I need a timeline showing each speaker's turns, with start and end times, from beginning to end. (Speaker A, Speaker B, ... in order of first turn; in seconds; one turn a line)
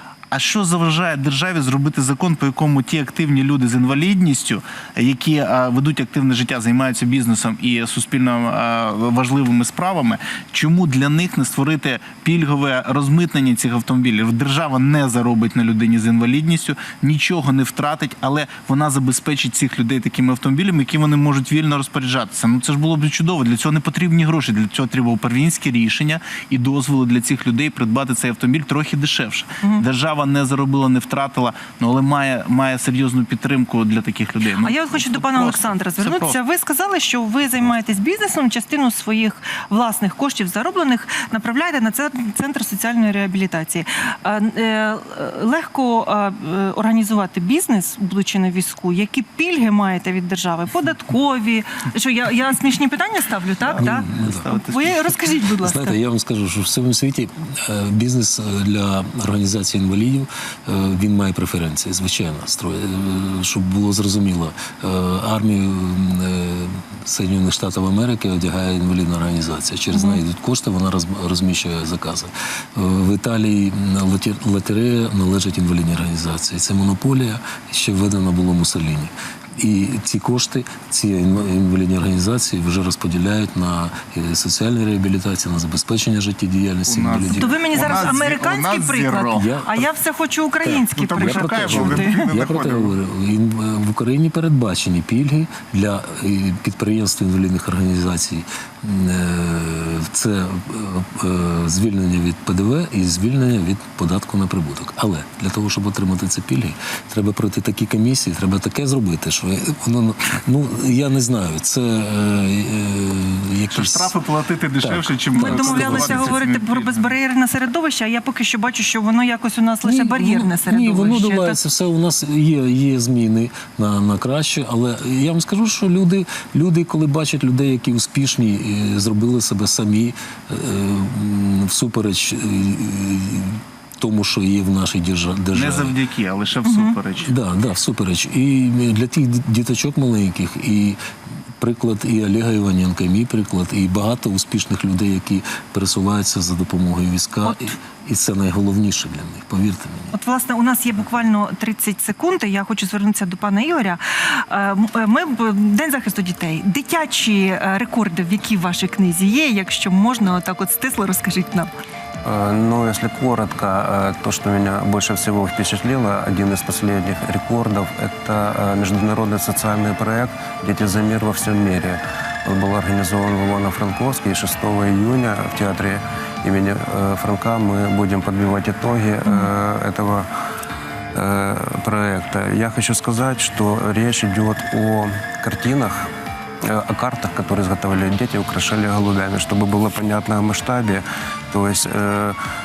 Speaker A: 0.3-36.4
Speaker B: 34.6-56.0
Speaker A: 53.6-55.1
Speaker C: 53.8-54.5
Speaker C: 55.6-88.3
Speaker B: 69.9-70.2
Speaker A: 86.9-89.5
Speaker B: 87.3-92.2
Speaker C: 89.3-89.9
Speaker C: 90.6-114.2
Speaker A: 91.0-92.9
Speaker A: 113.7-117.1
Speaker C: 114.8-116.4
Speaker B: 115.3-121.6
Speaker C: 119.8-135.9
Speaker A: 135.5-137.3
Speaker B: 136.6-136.9
Speaker C: 137.2-141.0
Speaker C: 141.6-150.1
Speaker B: 150.1-161.7
Speaker D: 162.2-180.3
Speaker D: 181.1-192.4